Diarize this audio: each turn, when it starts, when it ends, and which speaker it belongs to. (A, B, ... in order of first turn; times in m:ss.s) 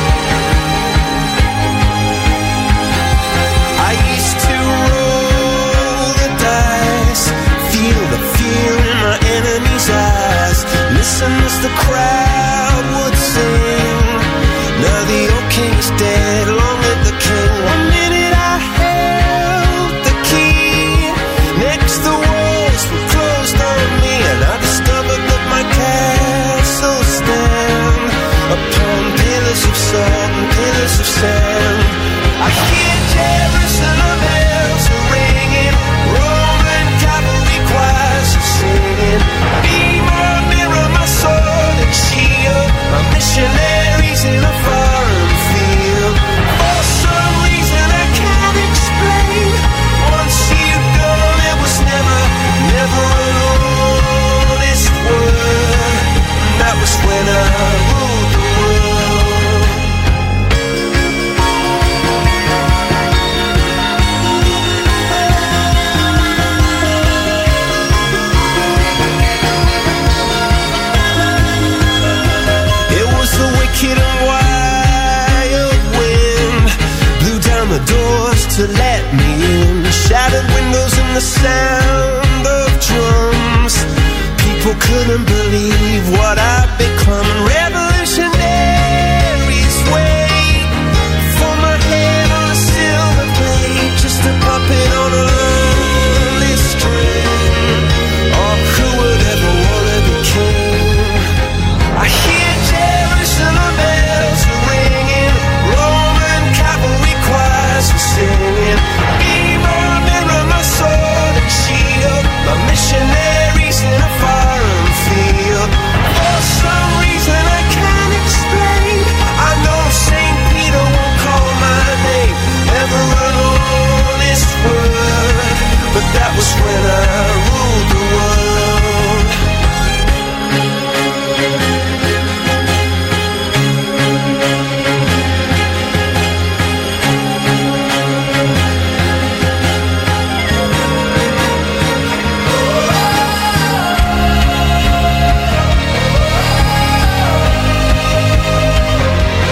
0:03.8-0:59.9 A
1:12.9-1:41.3 A
1:41.9-2:09.3 A